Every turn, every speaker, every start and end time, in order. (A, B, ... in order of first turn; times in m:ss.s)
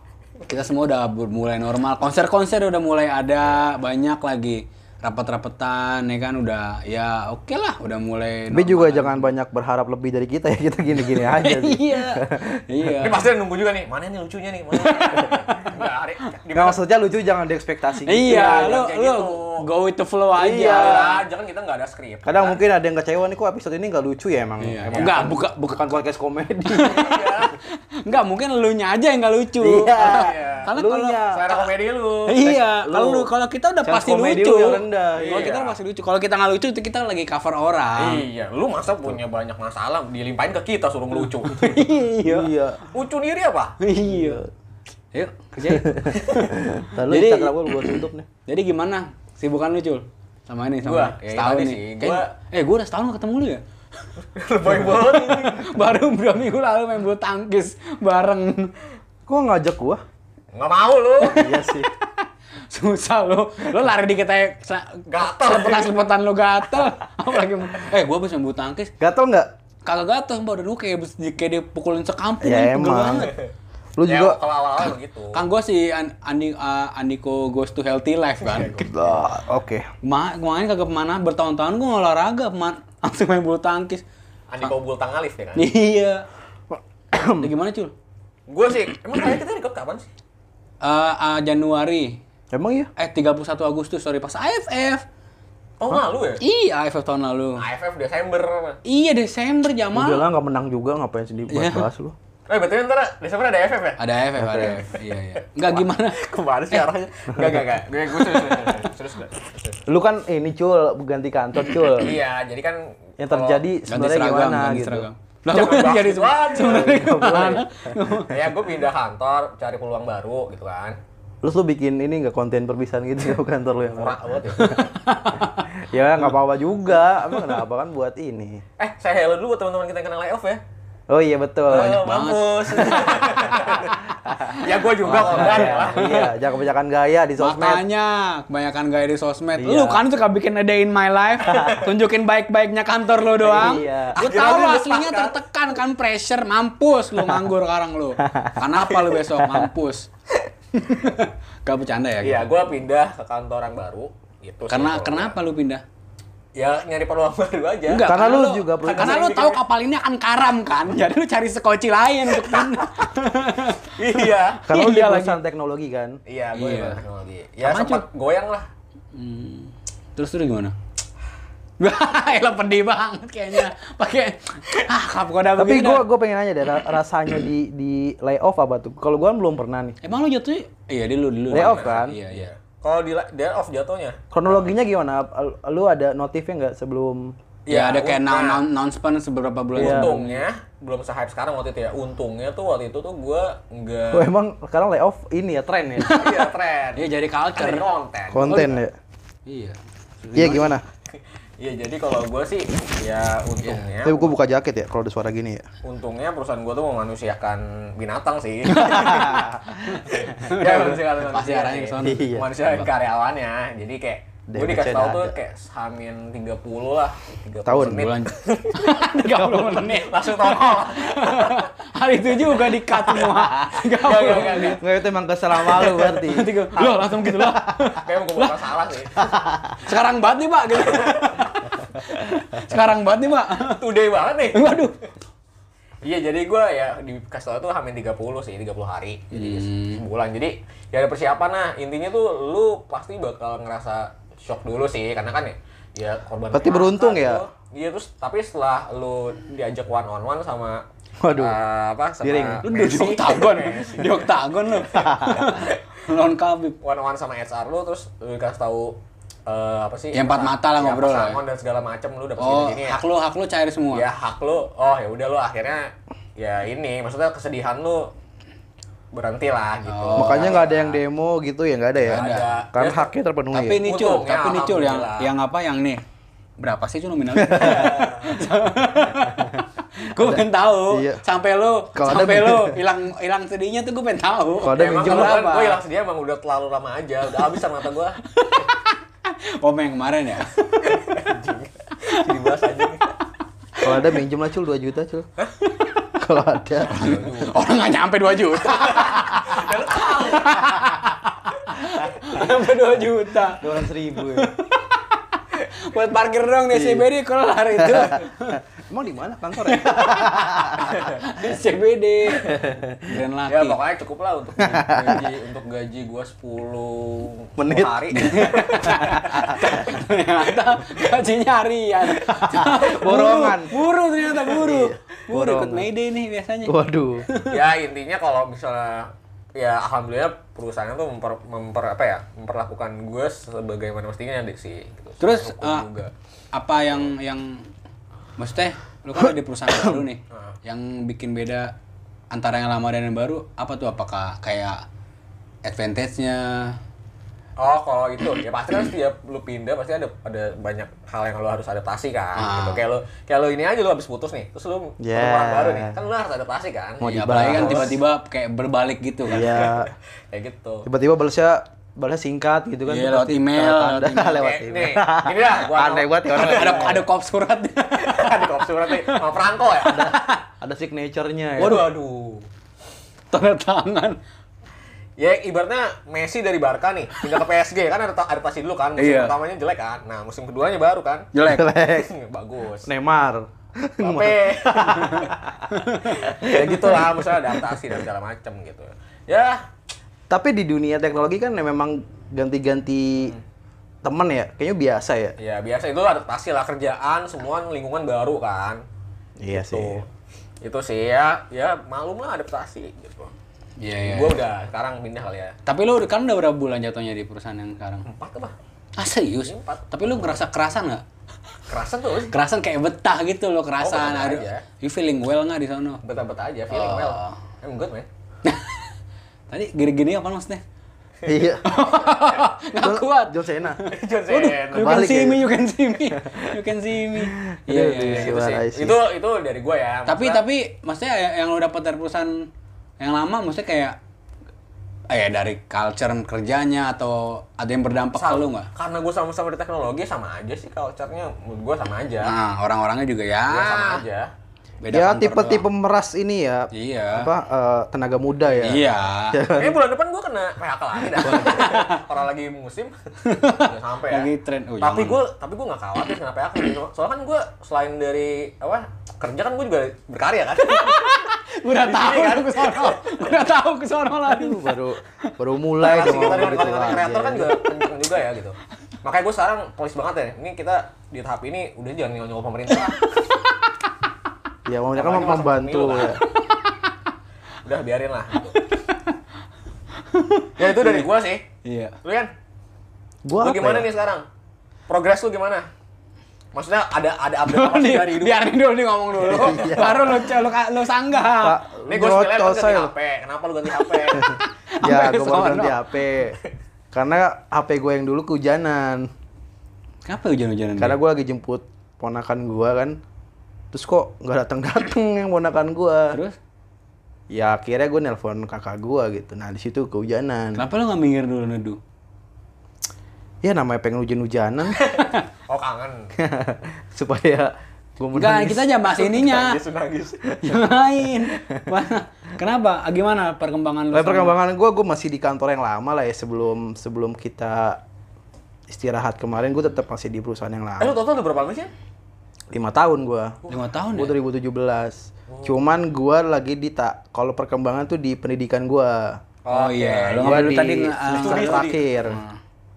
0:00.5-0:09.3 A
0:08.5-0:12.6 B
0:11.0-0:13.2 A
0:13.0-0:16.8 C
0:14.9-0:15.8 A
0:16.5-0:18.8 B
0:18.0-0:21.1 A
0:18.2-0:19.7 C
0:20.4-0:21.2 B
0:20.4-0:22.6 C
0:22.2-0:27.2 B
0:24.6-0:25.8 A
0:24.9-0:25.2 C
0:26.7-0:31.3 A
0:26.8-0:27.5 C
0:29.6-0:31.6 B
0:29.8-0:30.7 C
0:31.3-0:32.4 C
0:32.2-0:38.2 A
0:32.4-0:33.3 B
0:33.8-0:35.5 B
0:35.2-0:35.8 C
0:38.0-0:41.8 C
0:41.4-0:42.5 A
0:42.2-0:42.8 B
0:42.9-0:43.8 C
0:43.8-0:44.4 A
0:44.1-0:44.5 B
0:45.1-0:53.6 A
0:45.7-0:48.3 B
0:46.1-0:46.5 C
0:50.8-0:52.3 C
0:54.4-0:55.7 C
0:54.7-0:58.7 A
0:59.3-1:00.0 B
1:00.5-1:01.5 C
1:01.3-1:01.9 B
1:01.3-1:08.9 A
1:05.1-1:05.9 C
1:09.0-1:09.5 B
1:09.8-1:13.4 A
1:12.4-1:13.3 B
1:14.0-1:14.4 B
1:14.1-1:15.4 C
1:15.3-1:18.9 A
1:18.4-1:18.9 C
1:18.6-1:19.9 B
1:20.0-1:24.0 A
1:24.5-1:25.7 C
1:25.6-1:26.2 A
1:26.7-1:27.5 B
1:27.4-1:27.9 A
1:28.5-1:30.1 C
1:30.8-1:32.2 A
1:32.5-1:32.9 B
1:33.0-1:35.0 A
1:35.8-1:36.4 C
1:36.4-1:37.6 A
1:37.6-1:38.8 C
1:38.8-1:40.2 A
1:39.9-1:42.1 B
1:41.5-1:41.9 A
1:42.5-1:44.0 C
1:44.0-1:46.8 A
1:44.4-1:44.8 B
1:45.6-1:49.8 C
1:49.9-1:52.2 B
1:51.9-1:53.6 C
1:53.2-1:55.1 B
1:53.9-1:58.5 A
1:55.5-1:57.5 C
1:56.6-1:57.7 B
1:58.2-2:01.0 C
2:01.4-2:04.8 B
2:03.9-2:04.9 C
2:04.6-2:05.7 A
2:05.7-2:08.6 B
2:08.8-2:10.6 C
2:11.1-2:12.1 B
2:11.7-2:14.0 C
2:11.7-2:16.3 A
2:13.0-2:13.3 B
2:14.2-2:17.8 B
2:14.5-2:16.3 C
2:17.4-2:30.1 A
2:19.6-2:20.0 B
2:23.4-2:24.2 B
2:24.1-2:25.4 C
2:28.2-2:28.6 B
2:30.8-2:32.5 A
2:32.2-2:35.4 C
2:34.7-2:35.8 A
2:36.5-2:38.1 C
2:37.9-2:45.4 A
2:38.0-2:39.2 B
2:38.8-2:39.6 C
2:44.0-2:44.6 C
2:44.7-2:46.2 B
2:46.2-2:48.7 C
2:46.5-2:47.0 A
2:47.6-2:48.0 A
2:49.1-2:50.7 A
2:51.8-2:56.1 A
2:55.6-3:00.0 B
3:00.0-3:02.5 A
3:01.5-3:02.2 B
3:01.5-3:04.6 C
3:04.3-3:07.4 B
3:07.6-3:08.6 C
3:07.7-3:10.4 A
3:09.7-3:14.3 C
3:09.8-3:10.1 B
3:14.1-3:16.2 B
3:16.0-3:17.8 A
3:16.1-3:18.8 C
3:18.3-3:18.9 B
3:18.4-3:18.8 A
3:19.4-3:20.8 A
3:20.3-3:20.8 B
3:21.1-3:24.3 C
3:24.0-3:25.6 B
3:25.8-3:29.4 C
3:28.7-3:32.9 A
3:28.7-3:30.0 B
3:30.1-3:39.0 C
3:32.0-3:32.5 B
3:34.5-3:35.3 B
3:37.6-3:38.1 B
3:37.8-3:44.8 A
3:39.4-3:39.7 B
3:39.7-3:41.7 C
3:43.2-3:44.8 C
3:44.7-3:46.5 B
3:45.6-3:48.5 A
3:48.0-3:49.2 C
3:49.2-3:49.7 B
3:49.8-3:53.8 A
3:50.7-3:51.6 C
3:53.6-3:54.9 C
3:54.5-3:55.0 A
3:56.0-4:14.3 C
3:59.3-4:00.0 A
4:06.5-4:07.4 B
4:11.2-4:11.6 B
4:12.2-4:12.6 B
4:12.6-4:16.8 A
4:14.9-4:15.5 B
4:15.0-4:15.8 C
4:16.8-4:23.0 C
4:20.1-4:21.4 A
4:22.4-4:24.1 A
4:23.9-4:28.1 C
4:29.1-4:30.9 C
4:29.8-4:30.8 A
4:30.1-4:33.8 B
4:32.0-4:32.6 A
4:32.0-4:33.1 C
4:33.5-4:36.0 A
4:33.8-4:35.3 C
4:36.6-4:45.8 A
4:37.4-4:38.0 B
4:37.6-4:38.4 C
4:40.1-4:41.2 B
4:41.9-4:42.8 B
4:44.6-4:45.4 B
4:44.6-4:48.2 C
4:48.3-4:51.0 A
4:50.8-4:53.1 C
4:52.0-4:52.3 A
4:53.8-4:55.3 B
4:56.1-4:57.2 B
4:56.9-4:57.6 C
4:56.9-5:08.6 A
4:58.6-5:01.0 C
5:03.6-5:04.5 B
5:06.7-5:07.0 B
5:07.8-5:11.0 B
5:09.6-5:13.8 A
5:10.9-5:11.2 C
5:12.5-5:13.1 B
5:13.5-5:19.8 C
5:14.6-5:15.2 B
5:17.6-5:18.1 B
5:18.1-5:26.8 A
5:22.4-5:23.8 B
5:24.4-5:25.9 B
5:26.6-5:27.3 B
5:27.3-5:27.6 A
5:27.4-5:36.1 C
5:35.2-5:35.9 A
5:36.5-5:37.7 A
5:38.4-5:41.7 A
5:40.3-5:40.6 C
5:42.3-5:44.8 A
5:45.6-5:46.8 A
5:47.6-5:58.0 C
5:52.4-5:52.8 A
5:55.0-5:56.0 B
5:57.0-5:58.0 B
5:57.1-5:59.7 A
5:59.3-5:59.9 B
5:59.4-6:00.9 C
6:00.8-6:07.0 B
6:02.9-6:04.5 A
6:04.3-6:07.0 C
6:06.3-6:08.4 A
6:08.0-6:10.1 C
6:09.8-6:11.9 B
6:09.9-6:10.4 A
6:11.6-6:12.5 C
6:13.3-6:14.2 A
6:15.2-6:22.9 C
6:19.0-6:19.3 A
6:21.3-6:21.7 A
6:21.4-6:22.1 B
6:22.8-6:27.8 B
6:24.0-6:25.4 C
6:25.7-6:26.2 A
6:26.0-6:29.7 C
6:30.3-6:33.4 B
6:34.0-6:35.3 B
6:35.4-6:38.8 C
6:39.4-6:40.0 B
6:39.5-6:40.1 C
6:40.6-6:43.3 C
6:43.8-6:44.4 A
6:44.0-6:45.6 C
6:45.6-6:48.0 A
6:48.0-6:48.5 C
6:49.0-6:51.0 A
6:49.4-6:50.4 C
6:51.7-6:52.3 C
6:52.3-6:56.0 A
6:53.8-6:54.6 C
6:56.0-6:58.1 C
6:56.7-6:57.4 A
6:58.4-6:58.9 A
6:59.5-7:00.6 A
7:01.2-7:01.6 B
7:01.6-7:08.4 A
7:02.8-7:03.8 B
7:03.8-7:05.0 C
7:04.7-7:05.5 B
7:06.2-7:09.0 B
7:08.1-7:10.4 C
7:10.0-7:12.5 A
7:13.0-7:14.0 A
7:15.1-7:18.7 A
7:18.1-7:22.3 C
7:22.2-7:24.0 A
7:23.5-7:24.3 C
7:24.8-7:25.7 A
7:24.9-7:29.8 B
7:26.7-7:27.3 A
7:28.6-7:29.4 A
7:29.5-7:34.3 C
7:31.2-7:32.0 A
7:31.2-7:31.7 B
7:33.2-7:35.2 A
7:34.8-7:41.2 C
7:40.6-7:45.3 A
7:41.7-7:43.4 C
7:44.3-7:47.6 B
7:45.8-7:53.1 C
7:54.6-7:56.2 B
7:55.0-7:56.2 C
7:56.6-7:56.9 A
7:57.6-7:58.6 C
7:58.5-7:59.2 A
8:00.0-8:01.1 A
8:00.6-8:01.4 C
8:01.6-8:02.0 A
8:02.0-8:02.3 C
8:03.2-8:03.9 B
8:03.4-8:04.2 C
8:04.9-8:05.7 C
8:06.5-8:08.4 C
8:07.4-8:11.6 A
8:09.2-8:10.2 B
8:09.3-8:09.7 C
8:11.4-8:12.9 B
8:11.9-8:14.3 C
8:14.1-8:15.8 A
8:14.1-8:16.4 B
8:16.9-8:19.1 B
8:20.0-8:21.0 A
8:20.8-8:23.0 B
8:23.7-8:26.2 B
8:26.1-8:26.4 A
8:27.3-8:30.6 B
8:30.5-8:31.8 A
8:33.4-8:34.8 B
8:34.8-8:36.1 C
8:36.2-8:38.7 B
8:38.1-8:39.6 A
8:38.9-8:40.4 C
8:40.4-8:44.4 A
8:41.2-8:41.7 B
8:43.9-8:47.8 B
8:48.7-8:51.0 B
8:50.8-8:51.7 C
8:52.5-8:53.4 B
8:53.5-8:54.2 A
8:53.9-8:59.2 B
8:55.3-8:55.6 C
8:59.4-9:01.9 C
8:59.5-9:02.4 A
9:00.2-9:02.2 B